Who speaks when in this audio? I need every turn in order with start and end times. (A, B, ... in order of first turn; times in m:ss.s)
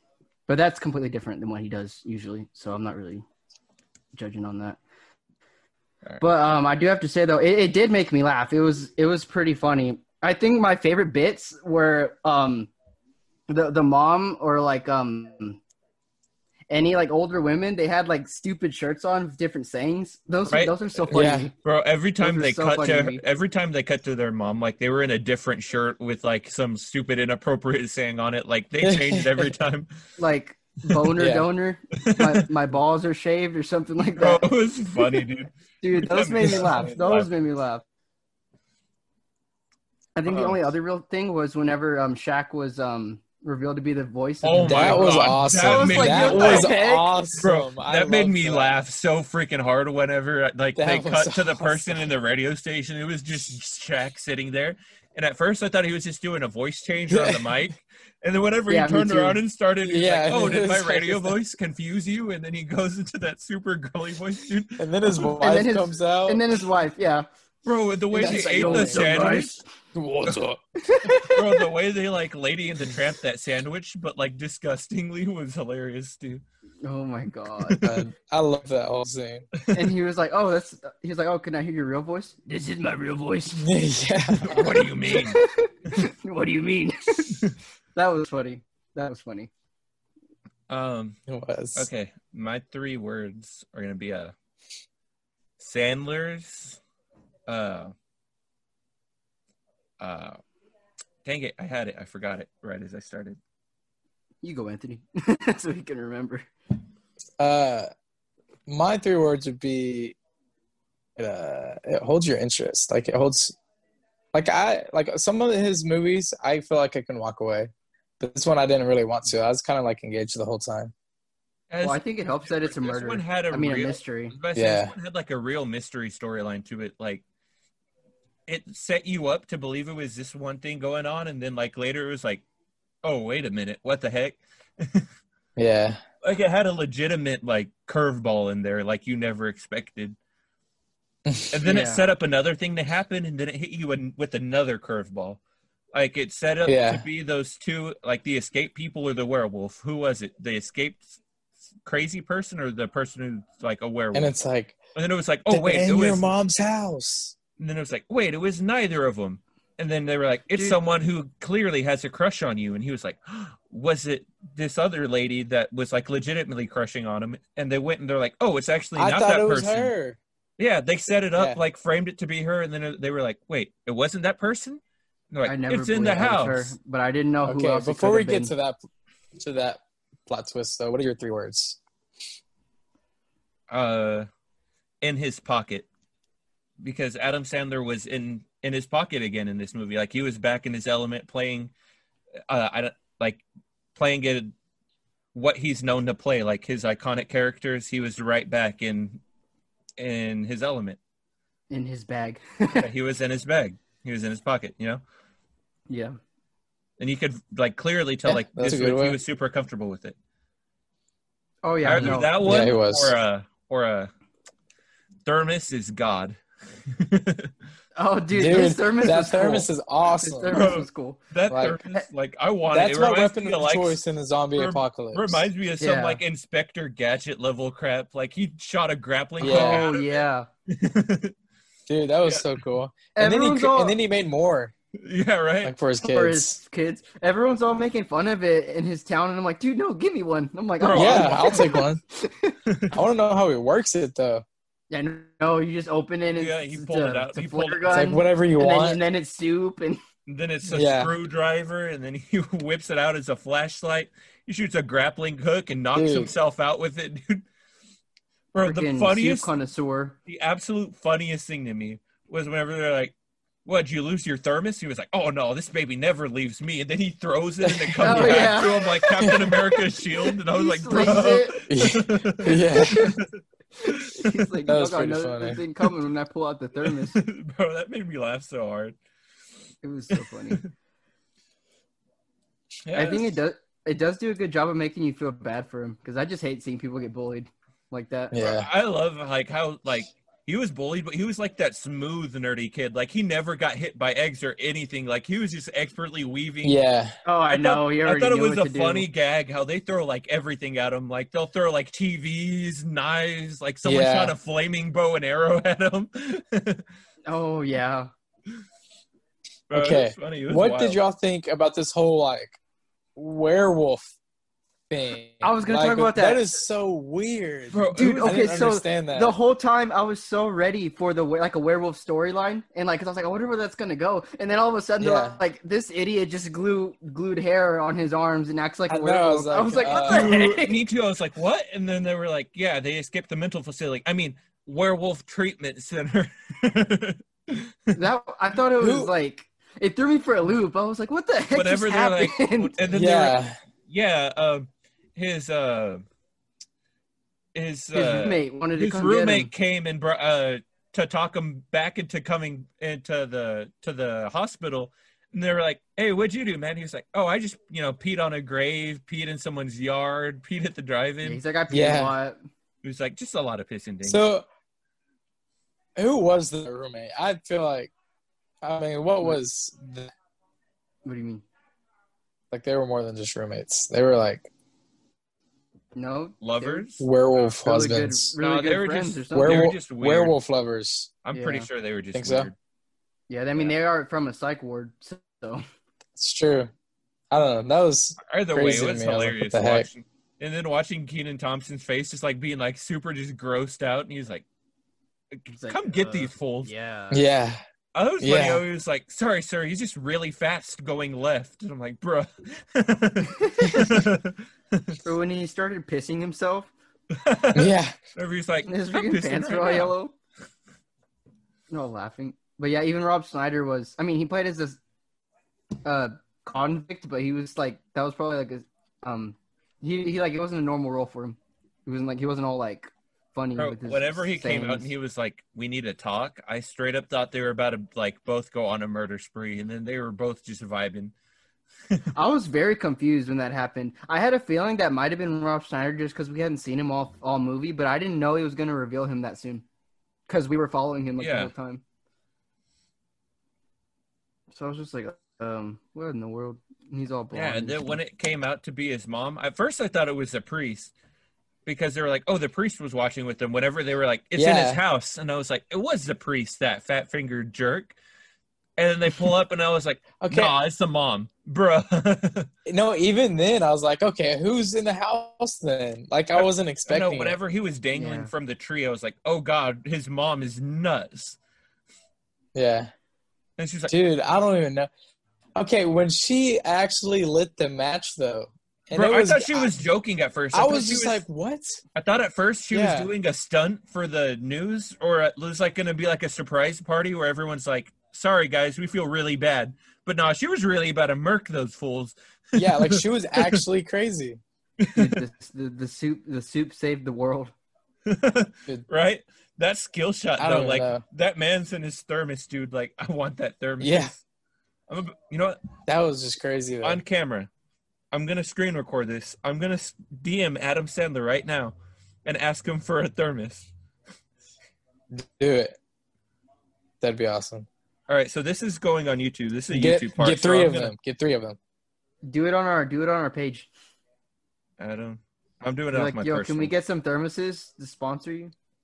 0:00.5-0:03.2 A
0:04.1-0:04.8 A
0:06.2-0:12.7 A
0:13.5-0:15.6 A
0:16.7-0:21.5 A
0:20.5-0:20.8 B
0:21.1-0:21.5 C
0:21.6-0:29.9 B
0:22.2-0:23.2 A
0:28.8-0:29.5 C
0:30.2-0:34.5 A
0:31.2-0:31.4 C
0:32.0-0:32.4 B
0:34.2-0:37.3 B
0:35.8-0:37.8 A
0:40.2-0:47.1 A
0:40.3-0:40.6 B
0:44.4-0:46.8 B
0:44.6-0:48.8 C
0:47.4-1:04.8 B
0:50.8-0:52.0 C
0:57.1-0:57.6 C
0:58.7-0:59.4 A
0:59.8-1:01.3 C
1:04.8-1:06.4 C
1:05.2-1:07.3 A
1:07.6-1:09.6 B
1:08.1-1:09.6 A
1:08.1-1:09.4 C
1:09.9-1:10.6 C
1:10.8-1:11.6 A
1:11.1-1:16.4 B
1:16.8-1:17.8 A
1:17.6-1:18.0 B
1:17.8-1:19.4 C
1:19.6-1:19.8 B
1:19.7-1:23.7 A
1:23.6-1:24.8 C
1:24.4-1:25.4 B
1:24.5-1:27.4 A
1:27.9-1:29.5 A
1:30.7-1:31.2 B
1:31.3-1:31.9 C
1:31.8-1:34.3 B
1:35.6-1:36.8 B
1:37.5-1:37.9 B
1:40.0-1:40.4 B
1:41.2-1:43.4 B
1:44.4-1:46.5 A
1:47.4-1:47.9 C
1:48.7-1:50.2 C
1:51.2-1:53.6 C
1:54.3-2:00.9 C
2:01.7-2:07.2 B
2:01.8-2:04.3 A
2:04.5-2:04.9 C
2:08.5-2:12.4 B
2:13.0-2:15.1 B
2:15.6-2:16.0 C
2:16.2-2:20.2 B
2:21.2-2:21.5 C
2:21.5-2:25.4 B
2:21.6-2:22.1 A
2:25.9-2:31.2 B
2:26.6-2:27.0 C
2:31.8-2:34.3 B
2:34.1-2:34.8 C
2:34.9-2:36.3 B
2:35.5-2:37.3 C
2:37.6-2:49.9 B
2:40.5-2:40.8 A
2:49.0-2:50.2 C
2:50.6-2:56.7 B
2:55.4-2:58.5 A
2:57.4-2:58.8 C
2:59.4-3:01.8 C
3:03.7-3:04.3 B
3:05.0-3:05.9 B
3:06.8-3:11.7 B
3:12.5-3:13.4 B
3:14.0-3:14.5 B
3:15.3-3:19.2 B
3:20.0-3:21.0 B
3:21.7-3:22.9 A
3:22.7-3:25.0 B
3:25.9-3:26.2 A
3:27.0-3:30.1 B
3:28.2-3:29.2 C
3:31.6-3:32.3 A
3:31.8-3:34.1 B
3:31.9-3:33.1 C
3:35.2-3:37.5 B
3:38.0-3:39.7 A
3:38.3-3:40.7 C
3:40.2-3:41.2 A
3:40.5-3:44.0 B
3:41.5-3:41.8 C
3:42.7-3:45.5 C
3:44.5-3:51.3 B
3:45.8-3:46.2 A
3:49.4-3:49.8 C
3:49.4-3:50.5 A
3:51.9-3:54.7 C
3:52.2-3:52.5 B
3:53.1-3:54.0 A
3:55.0-3:55.7 B
3:55.6-3:56.6 C
3:56.0-4:02.6 A
4:00.8-4:01.8 B
4:00.9-4:02.0 C
4:02.6-4:03.0 B
4:02.9-4:04.4 C
4:04.9-4:10.0 A
4:06.3-4:07.9 B
4:07.9-4:09.0 C
4:10.3-4:17.4 B
4:10.7-4:11.1 C
4:15.9-4:16.3 C
4:18.5-4:19.5 B
4:18.6-4:20.2 A
4:20.3-4:23.1 B
4:23.6-4:33.3 B
4:27.6-4:28.6 C
4:28.0-4:29.5 A
4:29.2-4:29.6 C
4:30.5-4:31.7 A
4:31.6-4:33.1 C
4:32.5-4:33.2 A
4:33.8-4:37.2 A
4:33.8-4:34.4 B
4:34.7-4:35.6 C
4:37.1-4:39.0 B
4:39.8-4:40.6 A
4:40.1-4:40.7 B
4:42.9-4:43.3 B
4:42.9-4:48.4 A
4:48.3-4:48.7 C
4:48.3-4:56.8 B
4:56.6-4:57.2 C
4:57.2-4:59.1 A
4:57.5-5:06.8 B
5:03.8-5:04.3 C
5:07.2-5:08.1 A
5:09.7-5:11.0 B
5:09.7-5:12.6 C
5:13.2-5:14.1 C
5:14.9-5:19.3 C
5:15.4-5:16.6 A
5:17.7-5:18.6 B
5:17.9-5:30.8 A
5:25.0-5:25.4 C
5:28.9-5:30.3 C
5:30.0-5:38.0 B
5:37.9-5:42.7 A
5:38.8-5:39.1 C
5:41.5-5:46.0 B
5:42.9-5:43.6 C
5:47.5-6:01.4 B
5:47.9-5:49.5 A
6:01.2-6:02.4 A
6:01.7-6:02.1 C
6:02.8-6:04.2 B
6:04.0-6:04.5 C
6:06.0-6:07.9 C
6:08.6-6:10.1 C
6:11.0-6:11.4 A
6:12.5-6:14.5 C
6:16.0-6:16.8 A
6:16.4-6:17.1 B
6:17.0-6:18.3 C
6:17.6-6:19.6 A
6:18.4-6:20.3 B
6:19.3-6:21.1 C
6:21.2-6:22.5 B
6:21.3-6:21.7 A
6:22.1-6:22.5 C
6:23.3-6:25.6 A
6:26.1-6:26.7 C
6:27.3-6:29.9 C
6:28.2-6:34.4 B
6:35.3-6:36.7 B
6:35.5-6:37.3 A
6:37.1-6:37.6 C
6:37.9-6:45.0 B
6:38.2-6:38.6 C
6:43.3-6:44.0 A
6:43.6-6:44.0 C
6:45.0-6:46.7 A
6:47.1-6:49.9 B
6:47.5-6:48.0 C
6:48.6-6:50.1 A
6:51.7-6:54.8 A
6:55.8-7:04.9 A
7:03.6-7:11.1 B
7:12.1-7:19.6 A
7:20.3-7:21.8 A
7:21.2-7:21.5 B
7:24.5-7:28.0 A
7:27.3-7:30.9 B
7:31.6-7:37.9 B
7:34.3-7:34.8 C
7:38.8-7:42.5 B
7:40.2-7:40.5 C
7:42.6-7:47.4 C
7:46.3-7:51.4 B
7:47.9-7:48.3 A
7:52.5-7:52.9 C
7:53.6-7:53.9 B
7:53.9-7:54.9 C
7:55.5-7:59.8 C
7:58.9-8:01.2 B
8:00.5-8:01.8 C
8:01.9-8:13.6 B
8:02.7-8:03.1 C
8:12.5-8:14.4 C
8:14.8-8:15.1 B
8:14.9-8:17.5 A
8:18.0-8:24.2 B
8:20.4-8:21.0 C
8:23.8-8:24.1 C
8:24.9-8:25.6 B
8:25.9-8:27.0 C
8:26.8-8:27.5 B
8:28.1-8:33.7 B
8:35.1-8:35.8 C
8:37.0-8:37.7 C
8:38.1-8:40.9 B
8:39.7-8:41.6 C
8:42.2-8:43.7 A
8:44.8-8:46.7 B
8:45.9-8:48.5 A